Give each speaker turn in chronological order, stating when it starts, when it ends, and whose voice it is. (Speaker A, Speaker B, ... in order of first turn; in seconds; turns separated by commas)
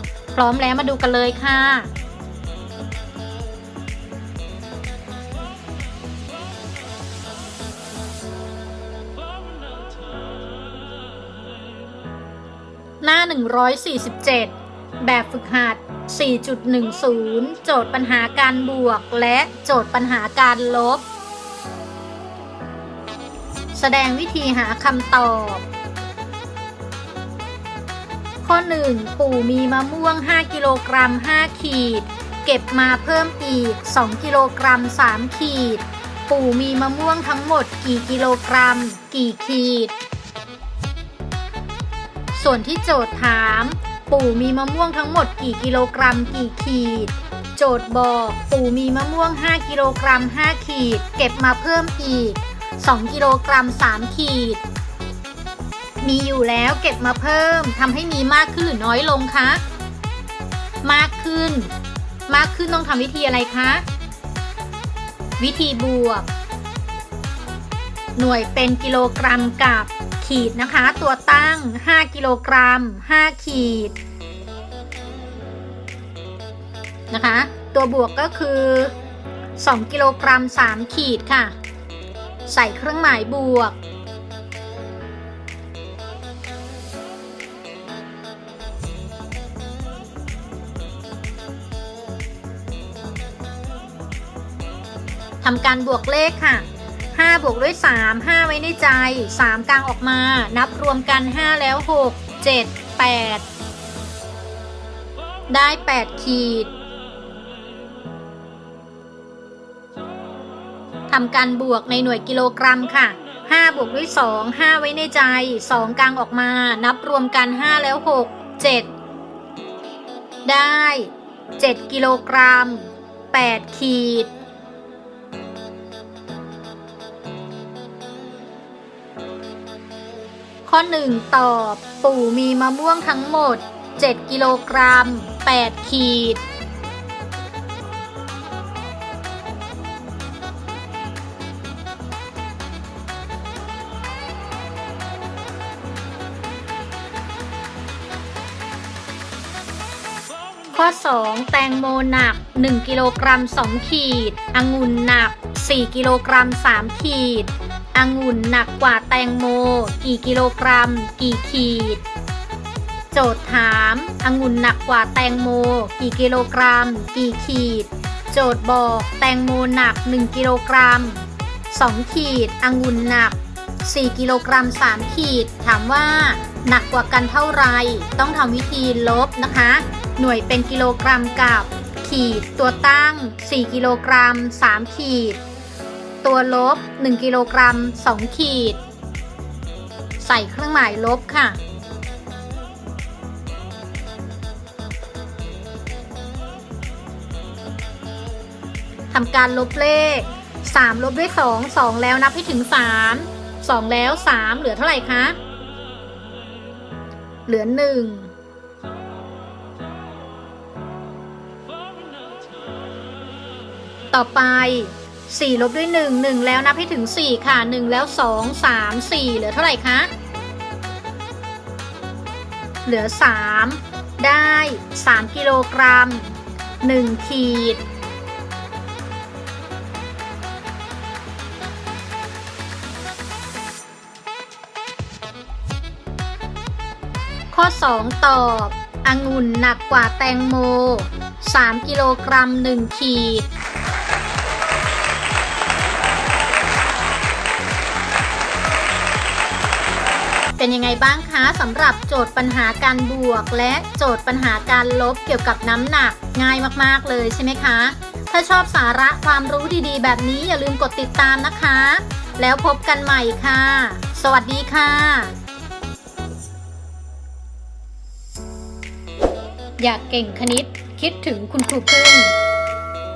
Speaker A: 0.3-1.9, Speaker A: 13.0-21.0, Speaker A: 23.7-25.6, Speaker A: 28.4-39.9, Speaker A: 42.3-54.6, Speaker A: 56.0-59.6, Speaker A: 60.8-61.7, Speaker A: 62.3-63.8, Speaker A: 65.4-66.3, Speaker A: 68.2-73.9, Speaker A: 77.1-78.9, Speaker A: 79.6-81.5, Speaker A: 82.5-83.8, Speaker A: 95.4-103.4, Speaker A: 105.5-106.7, Speaker A: 111.1-118.9, Speaker A: 120.4-124.3, Speaker A: 130.7-136.4, Speaker A: 150.7-162.0, Speaker A: 163.1-185.4, Speaker A: 186.2-188.8, Speaker A: 190.2-191.6, Speaker A: 199.1-205.4, Speaker A: 207.5-208.3, Speaker A: 214.1-220.1, Speaker A: 222.8-227.8, Speaker A: 237.5-243.5, Speaker A: 250.6-265.3, Speaker A: 269.8-272.3